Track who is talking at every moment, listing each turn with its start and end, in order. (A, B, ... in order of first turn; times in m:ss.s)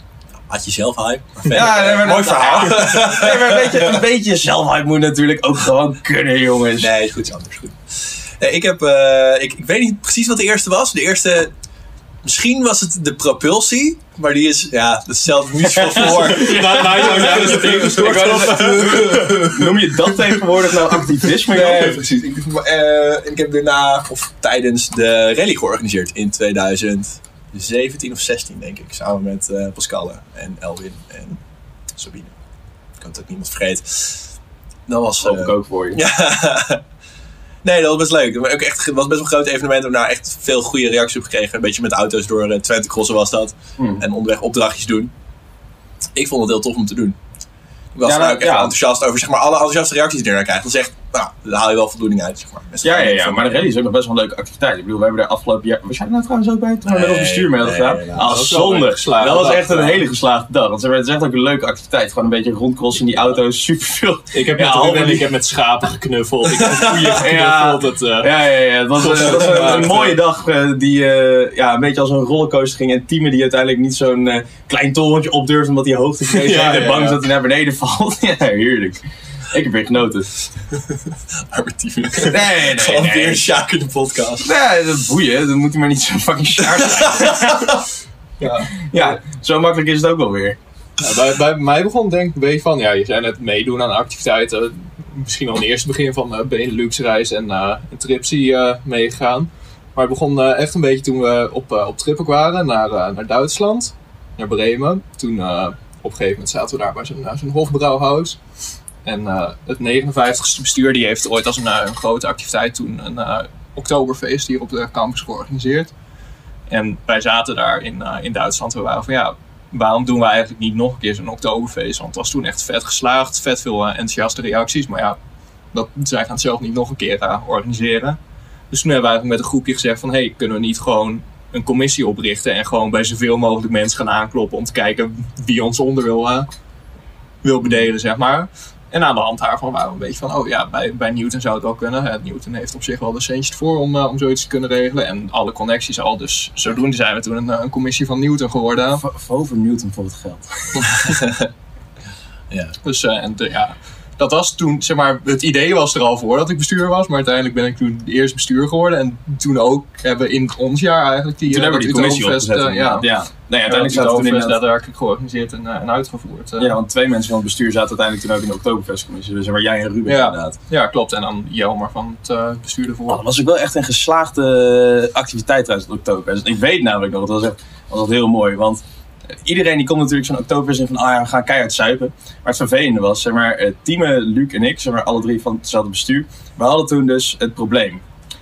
0:00.5-0:04.0 A
0:01.5-0:06.9 B
0:06.8-0:11.5 A
0:12.2-0:20.4 A
0:15.8-0:22.0 B
0:16.0-0:19.1 C
0:21.4-0:31.4 A
0:31.9-0:32.3 A
0:33.0-0:34.3 A
0:34.9-0:36.8 A
0:35.2-0:36.0 B
0:37.6-0:45.1 A
0:43.8-0:44.0 B
0:46.2-0:47.2 A
0:47.9-0:53.7 A
0:48.0-0:48.7 B
0:52.8-1:05.3 B
0:56.9-0:58.5 A
0:58.2-1:00.0 C
1:04.3-1:08.3 C
1:06.8-1:20.3 B
1:08.9-1:10.2 C
1:16.3-1:17.2 C
1:21.3-1:24.5 A
1:22.2-1:23.5 B
1:24.4-1:27.8 B
1:26.7-1:27.7 A
1:28.4-1:28.7 C
1:28.7-1:30.6 B
1:31.0-1:48.4 C
1:49.0-1:55.9 C
1:56.7-2:05.2 C
2:05.7-2:08.2 C
2:08.7-2:16.5 C
2:17.4-2:29.0 C
2:29.0-2:31.1 B
2:30.8-2:31.5 A
2:32.8-2:43.1 C
2:41.5-2:44.6 B
2:43.6-2:46.8 C
2:46.6-2:50.6 B
2:50.1-2:53.2 C
2:53.1-2:58.8 B
2:59.4-3:08.0 B